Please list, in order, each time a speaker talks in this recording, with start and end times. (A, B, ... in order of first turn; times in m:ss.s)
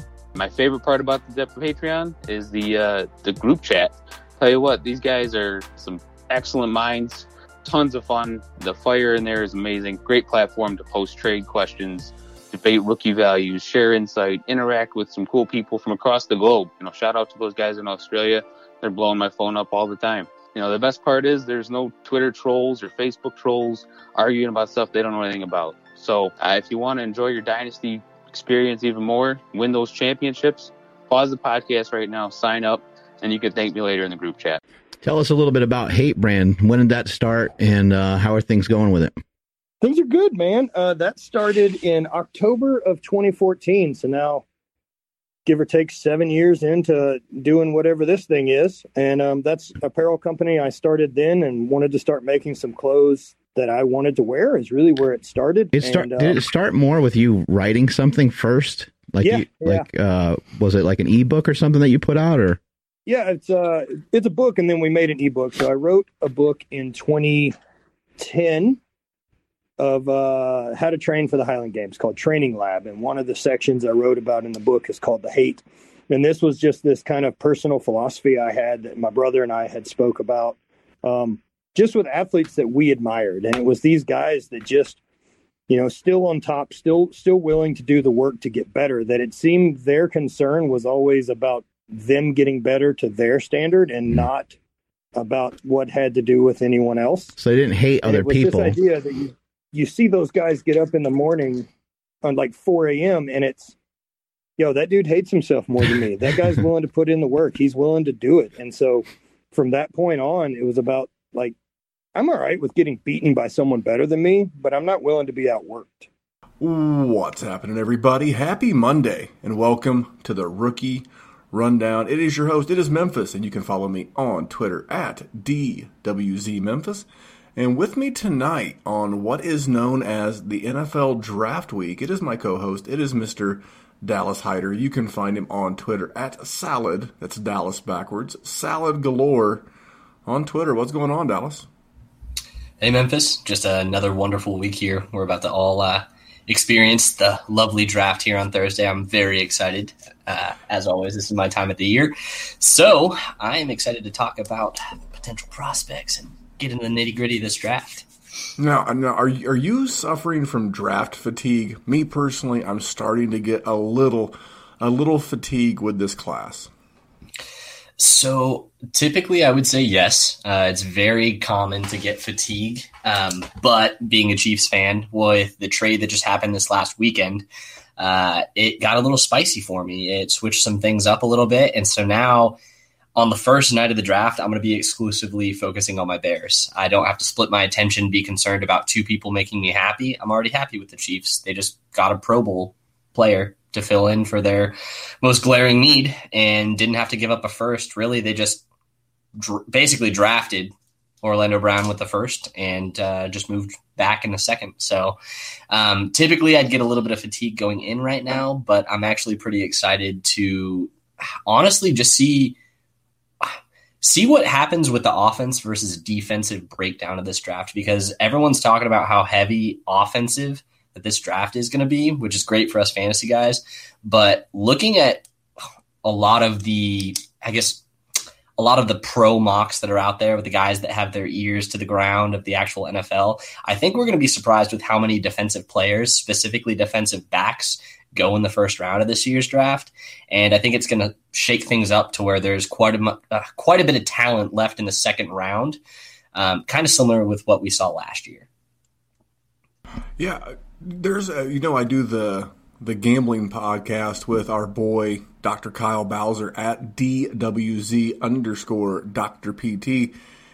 0:00.3-0:34.6 A
0:35.0-0:39.2 B
0:39.8-0:44.4 C
0:45.4-0:56.4 C
0:55.7-1:02.6 B
0:59.2-0:59.8 C
1:03.0-1:07.5 C
1:08.2-1:08.8 C
1:09.8-1:25.0 C
1:25.7-1:34.6 C
1:35.1-1:37.3 C
1:37.4-1:38.8 B
1:38.0-1:41.7 C
1:42.2-1:43.7 C
1:44.6-1:51.6 C
1:52.1-1:56.1 C
1:56.6-2:19.7 D
2:20.2-2:21.7 D
2:22.8-2:38.1 E
2:38.6-2:46.7 D
2:48.0-2:57.4 E
2:58.0-3:02.6 E
3:03.2-3:18.6 E
3:19.4-3:25.2 E
3:25.7-3:30.9 E
3:31.5-3:32.6 E
3:33.4-3:45.2 E
3:46.0-3:47.8 E
3:48.6-4:05.8 E
4:06.3-4:08.5 E
4:10.2-4:20.1 D